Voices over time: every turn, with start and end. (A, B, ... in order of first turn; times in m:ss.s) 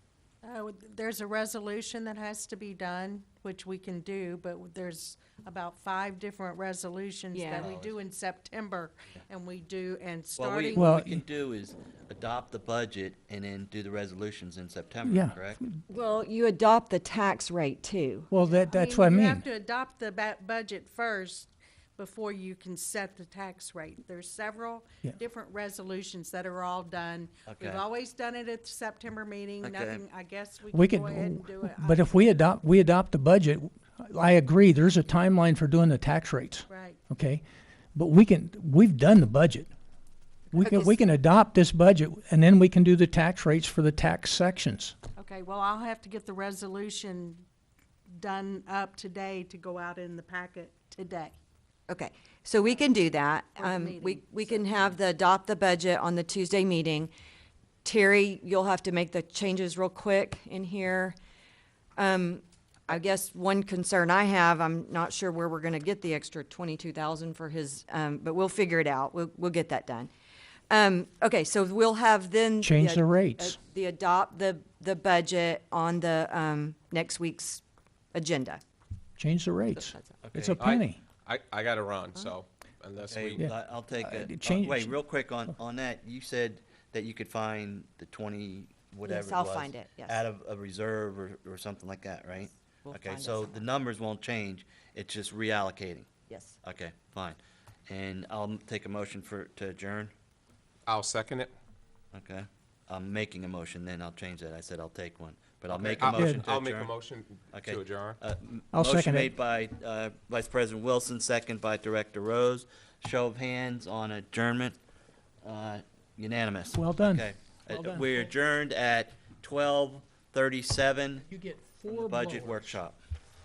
0:00.4-0:10.9 A
0:07.3-0:07.7 B
0:07.6-0:08.0 C
0:10.4-0:15.6 C
0:10.8-0:11.2 D
0:15.0-0:15.8 D
0:15.9-0:18.3 B
0:18.3-0:19.4 D
0:18.4-0:32.4 A
0:27.4-0:27.8 C
0:29.6-0:30.0 C
0:30.7-0:37.4 D
0:36.7-0:37.0 A
0:37.9-0:39.7 D
0:40.5-0:44.9 D
0:40.5-0:41.0 A
0:45.2-0:47.4 A
0:48.1-0:51.4 A
0:51.9-0:57.1 B
0:52.7-0:52.9 A
0:53.5-0:54.9 A
0:57.8-1:01.2 B
1:02.0-1:10.1 B
1:10.7-1:17.6 B
1:12.6-1:13.6 D
1:18.1-1:18.6 B
1:19.2-1:21.0 D
1:19.8-1:20.1 B
1:20.2-1:20.6 C
1:20.6-1:23.4 E
1:23.1-1:36.1 C
1:23.4-1:24.9 D
1:29.0-1:30.2 B
1:32.8-1:33.7 B
1:36.3-1:36.6 B
1:36.6-1:37.4 C
1:37.9-1:40.1 C
1:40.9-1:41.5 E
1:42.1-1:46.9 C
1:45.7-1:48.2 E
1:47.5-1:54.8 C
1:48.7-1:49.3 D
1:55.4-2:01.2 C
1:56.7-1:58.3 D
2:01.2-2:02.8 D
2:01.9-2:03.0 C